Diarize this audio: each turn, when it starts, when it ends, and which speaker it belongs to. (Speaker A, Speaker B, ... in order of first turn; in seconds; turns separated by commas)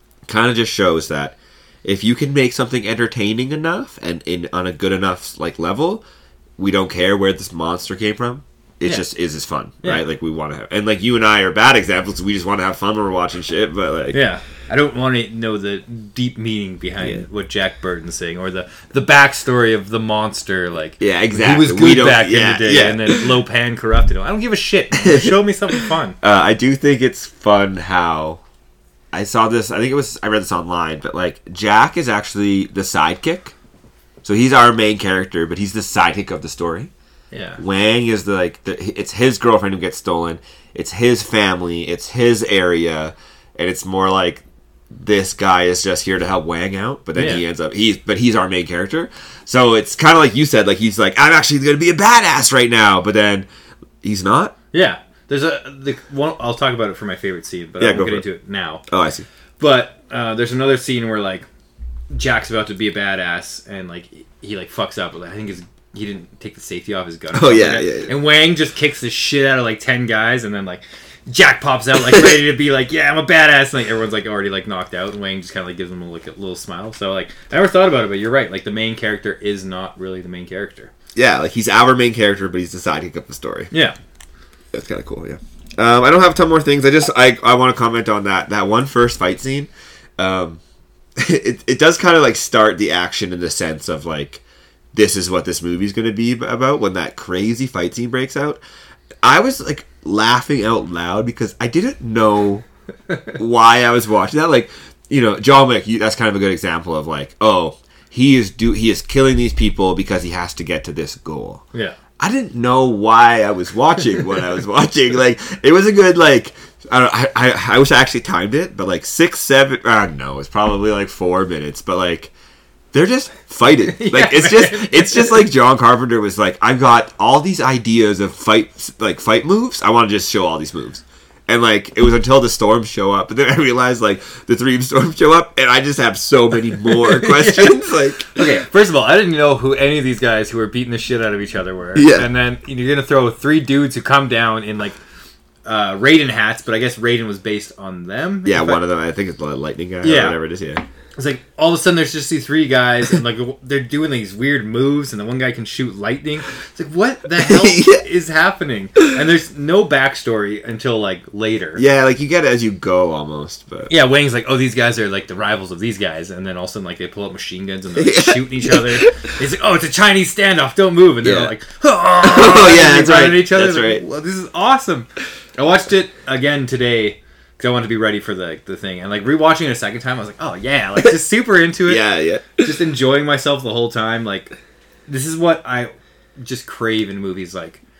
Speaker A: 0.3-6.0, Speaker A: 6.6-14.2, Speaker B: 14.1-26.2, Speaker A: 21.0-23.3, Speaker A: 25.0-28.4, Speaker A: 29.1-33.5, Speaker A: 34.2-36.9, Speaker B: 37.3-37.6, Speaker A: 37.6-53.5, Speaker B: 47.1-47.4, Speaker A: 54.0-54.5, Speaker B: 54.7-58.8, Speaker A: 57.8-58.2, Speaker A: 58.9-59.2, Speaker B: 59.6-61.5, Speaker B: 62.1-80.9, Speaker A: 67.3-68.1, Speaker A: 81.2-83.7, Speaker B: 83.7-84.0, Speaker A: 84.7-90.6, Speaker A: 91.2-98.6, Speaker A: 99.2-102.6, Speaker B: 103.1-103.3, Speaker A: 103.3-111.6, Speaker A: 112.2-122.3, Speaker A: 122.9-138.4, Speaker B: 123.8-125.5, Speaker B: 136.9-145.0, Speaker A: 141.9-142.3, Speaker B: 145.6-148.8, Speaker A: 148.4-150.8, Speaker B: 150.0-150.4, Speaker B: 151.2-161.8, Speaker A: 157.3-158.0, Speaker A: 161.8-163.9, Speaker B: 163.9-182.0, Speaker A: 168.0-169.3, Speaker A: 171.2-171.5, Speaker A: 172.2-174.0, Speaker A: 181.8-182.7, Speaker B: 182.6-184.6, Speaker B: 185.1-187.8